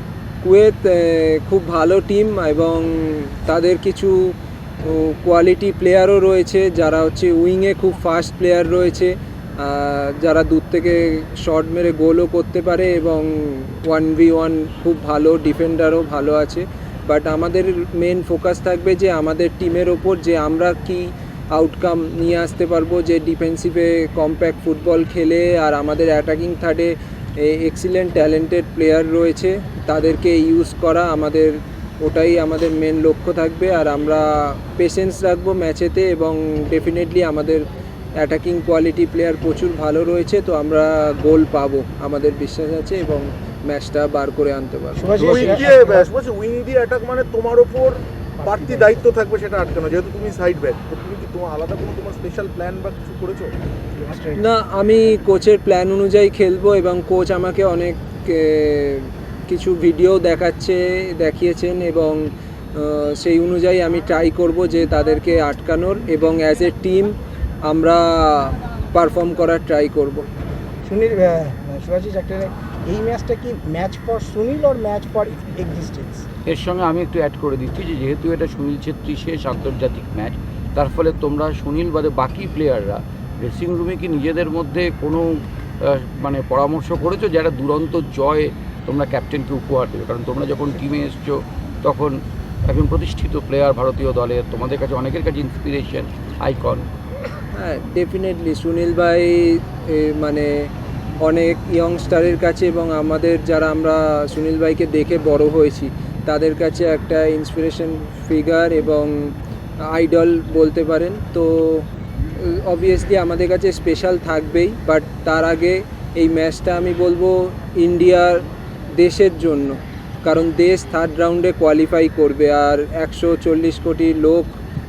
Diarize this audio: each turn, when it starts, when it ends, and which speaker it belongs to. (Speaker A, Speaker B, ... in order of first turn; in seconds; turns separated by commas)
Speaker A: 0.4-45.4, Speaker B: 44.9-46.1, Speaker C: 45.1-53.5, Speaker B: 48.4-49.1, Speaker B: 54.0-54.5, Speaker A: 54.4-70.3, Speaker B: 70.8-76.3, Speaker D: 76.5-96.9, Speaker A: 97.5-124.6